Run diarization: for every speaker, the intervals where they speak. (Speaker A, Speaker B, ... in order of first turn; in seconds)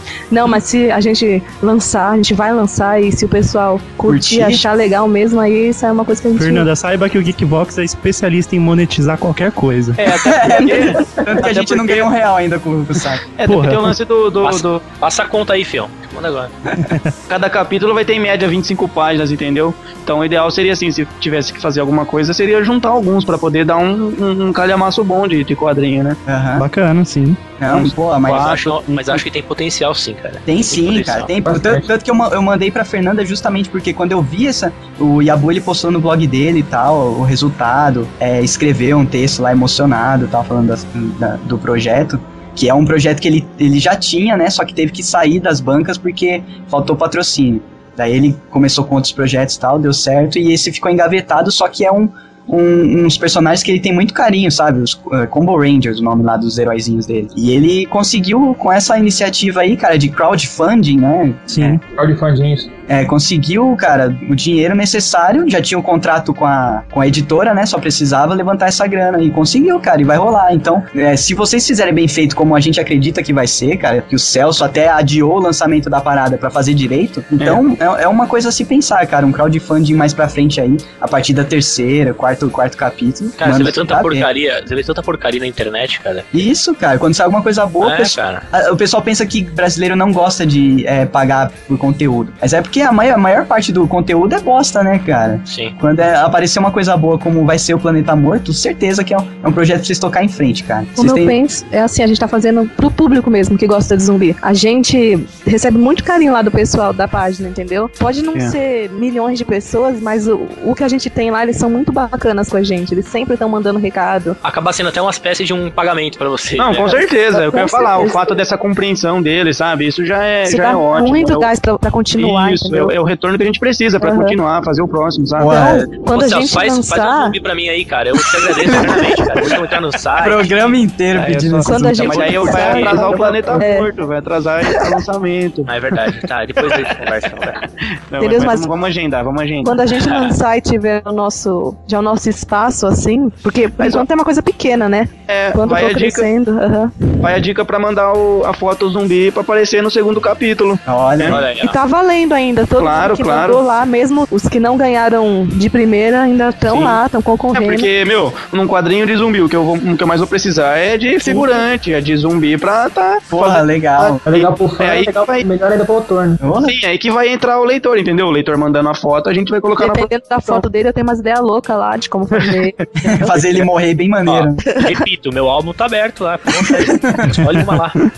Speaker A: 0.3-6.7, 101.0-114.4, 117.3-118.3, 120.5-122.9, 124.0-124.3, 125.4-127.4, 128.9-129.2, 131.7-133.9, 138.2-138.7, 139.6-147.2, 151.5-157.9, 169.8-173.4, 174.6-175.0
Speaker B: 4.0-4.6, 10.2-13.2, 26.2-26.6, 27.6-28.7, 30.4-61.8, 62.9-84.3, 86.3-101.3, 125.4-125.9, 130.2-133.3, 150.8-151.4, 163.3-164.2, 166.4-166.7, 173.0-174.6
Speaker C: 6.4-10.0, 13.5-13.9, 16.8-17.1, 26.6-27.6, 61.5-61.8
Speaker D: 10.0-12.1, 13.3-14.8, 17.3-26.2, 27.6-29.2, 77.4-77.6, 116.6-121.5, 122.2-125.6, 131.1-136.1, 138.1-139.8, 145.3-146.3, 147.2-151.4, 152.8-153.6, 156.7-157.0, 157.5-165.4, 166.6-170.6, 172.4-172.8
Speaker E: 14.4-16.5, 28.2-31.3, 83.4-86.4, 87.8-88.4, 95.5-95.7, 114.4-117.0, 126.0-130.8, 132.7-133.1, 135.7-137.6, 151.3-151.8, 174.3-178.0
Speaker F: 31.4-31.9, 61.9-62.7, 164.2-166.4